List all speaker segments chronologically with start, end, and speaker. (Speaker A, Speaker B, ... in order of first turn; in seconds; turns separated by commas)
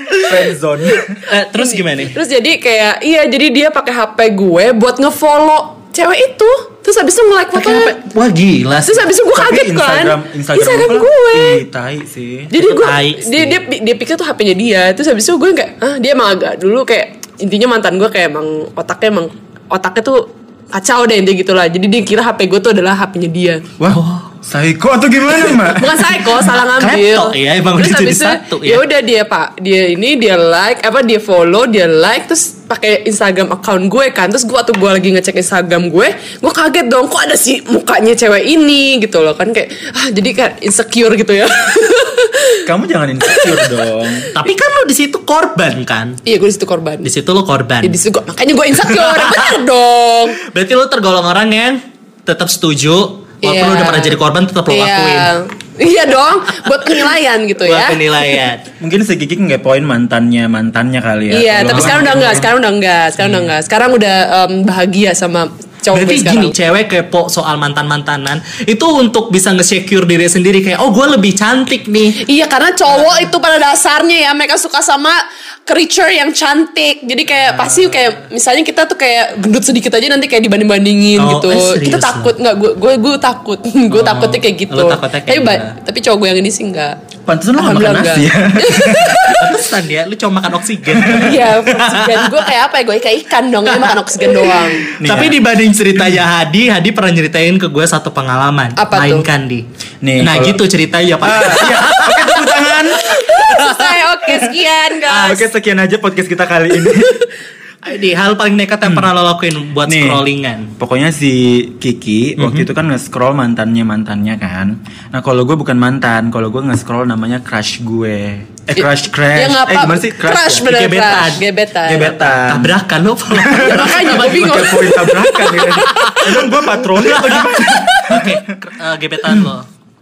Speaker A: 0.2-1.2, Speaker B: 1.3-2.1, Speaker C: 1.3-8.0, Speaker B: 7.5-9.1, Speaker C: 8.8-11.6, Speaker A: 9.3-12.5, Speaker C: 12.5-23.6, Speaker B: 12.6-13.6, Speaker A: 23.8-26.2, Speaker B: 23.9-24.3, Speaker C: 25.7-42.6, Speaker B: 26.5-28.8, Speaker A: 42.6-44.3, Speaker C: 43.2-44.3, Speaker B: 44.3-46.2, Speaker C: 46.2-47.1, Speaker B: 47.0-48.0, Speaker C: 47.8-50.4, Speaker B: 48.8-49.6, Speaker B: 50.5-55.3, Speaker C: 53.4-58.0, Speaker B: 57.6-58.6, Speaker A: 58.8-62.5, Speaker C: 61.3-66.5, Speaker B: 61.7-62.5, Speaker B: 63.2-63.5, Speaker B: 65.9-72.2, Speaker C: 72.2-87.0, Speaker B: 81.2-82.3, Speaker B: 83.9-85.8, Speaker A: 87.2-89.5, Speaker C: 87.6-89.6, Speaker B: 89.3-92.5, Speaker C: 91.0-94.9, Speaker B: 93.7-99.6, Speaker A: 95.0-95.4, Speaker A: 95.9-96.2, Speaker C: 98.8-99.2, Speaker A: 100.0-100.6, Speaker B: 100.2-102.5, Speaker A: 101.2-103.0, Speaker C: 102.2-105.5, Speaker B: 103.0-104.4, Speaker A: 105.1-107.2, Speaker C: 106.8-107.2, Speaker B: 107.8-110.7, Speaker A: 109.9-110.2, Speaker A: 110.8-120.6, Speaker B: 112.4-112.7, Speaker C: 118.8-122.3, Speaker B: 120.5-121.4, Speaker A: 121.9-122.8, Speaker B: 122.3-124.8, Speaker A: 123.3-128.4, Speaker C: 123.5-126.3, Speaker B: 125.5-129.6